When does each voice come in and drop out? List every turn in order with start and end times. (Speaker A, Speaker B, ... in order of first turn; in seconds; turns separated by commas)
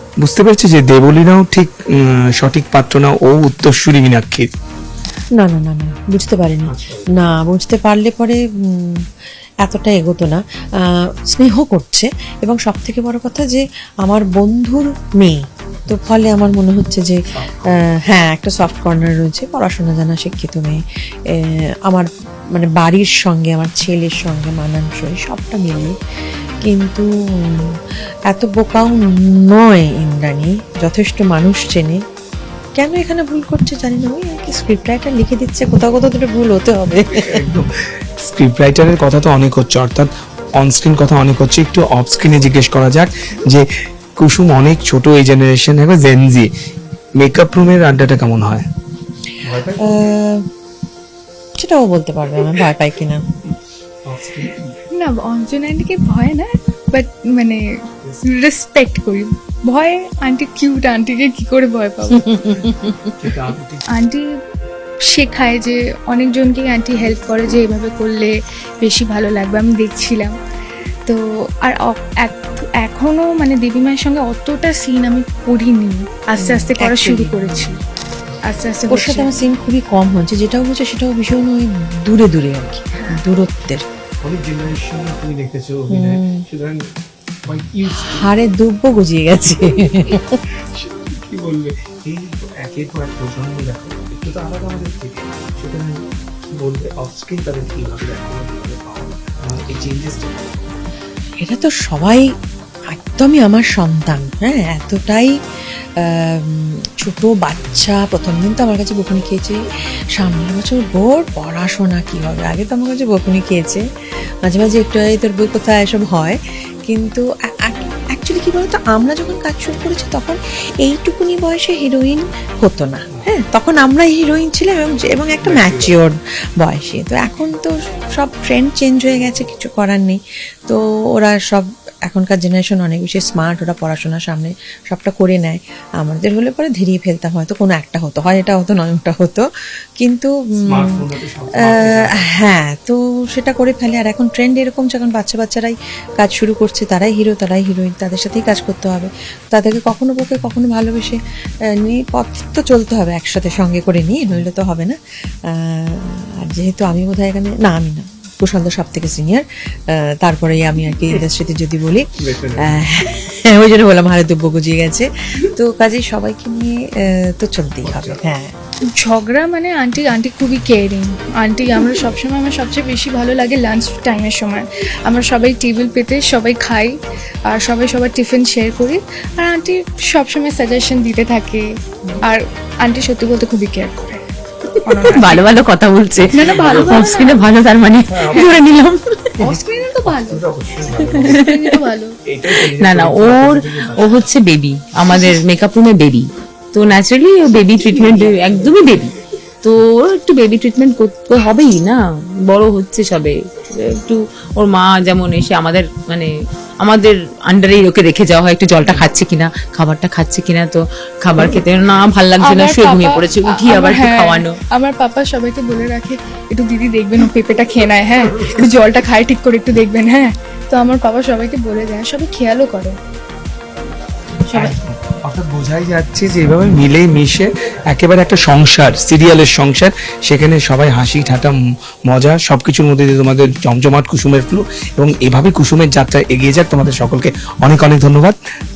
Speaker A: 0.2-4.5, Speaker B: 5.4-9.1, Speaker A: 6.7-7.2, Speaker B: 9.6-17.2, Speaker A: 17.3-18.0, Speaker B: 17.7-26.0, Speaker B: 26.6-27.8, Speaker B: 28.3-32.0, Speaker B: 32.8-37.4, Speaker A: 37.1-37.7, Speaker A: 38.2-43.6, Speaker A: 44.2-46.5, Speaker A: 47.2-48.7, Speaker A: 49.4-50.2, Speaker B: 49.7-50.4, Speaker B: 51.6-53.2, Speaker A: 54.1-54.8, Speaker C: 54.9-57.6, Speaker C: 58.2-62.8, Speaker B: 62.2-63.1, Speaker A: 63.2-63.9, Speaker C: 64.0-64.3, Speaker C: 65.1-70.3, Speaker C: 71.1-77.8, Speaker B: 76.4-77.7, Speaker C: 78.5-79.3, Speaker B: 78.9-83.8, Speaker C: 83.0-83.2, Speaker A: 84.2-86.8, Speaker B: 85.9-86.4, Speaker A: 87.5-88.3, Speaker B: 87.9-90.4, Speaker A: 89.6-90.2, Speaker A: 90.7-100.8, Speaker B: 101.4-102.3, Speaker B: 102.9-105.3, Speaker B: 106.0-109.6, Speaker B: 110.2-113.8, Speaker B: 114.4-139.4, Speaker A: 125.4-126.0, Speaker B: 140.0-141.0, Speaker A: 140.7-142.4, Speaker B: 141.6-151.2, Speaker B: 151.7-162.1, Speaker A: 162.2-162.8, Speaker B: 162.6-168.5, Speaker A: 167.8-168.2, Speaker C: 168.9-177.0, Speaker C: 177.5-181.7, Speaker C: 182.2-185.5, Speaker D: 184.9-189.0, Speaker A: 186.2-187.5, Speaker C: 186.3-187.4, Speaker A: 188.1-188.5, Speaker C: 189.4-190.4, Speaker A: 189.4-191.5, Speaker C: 191.0-192.2, Speaker D: 191.0-191.8, Speaker A: 192.3-194.3, Speaker D: 192.5-214.5, Speaker A: 197.5-198.9, Speaker C: 212.5-223.0, Speaker C: 224.5-224.8, Speaker A: 224.5-238.4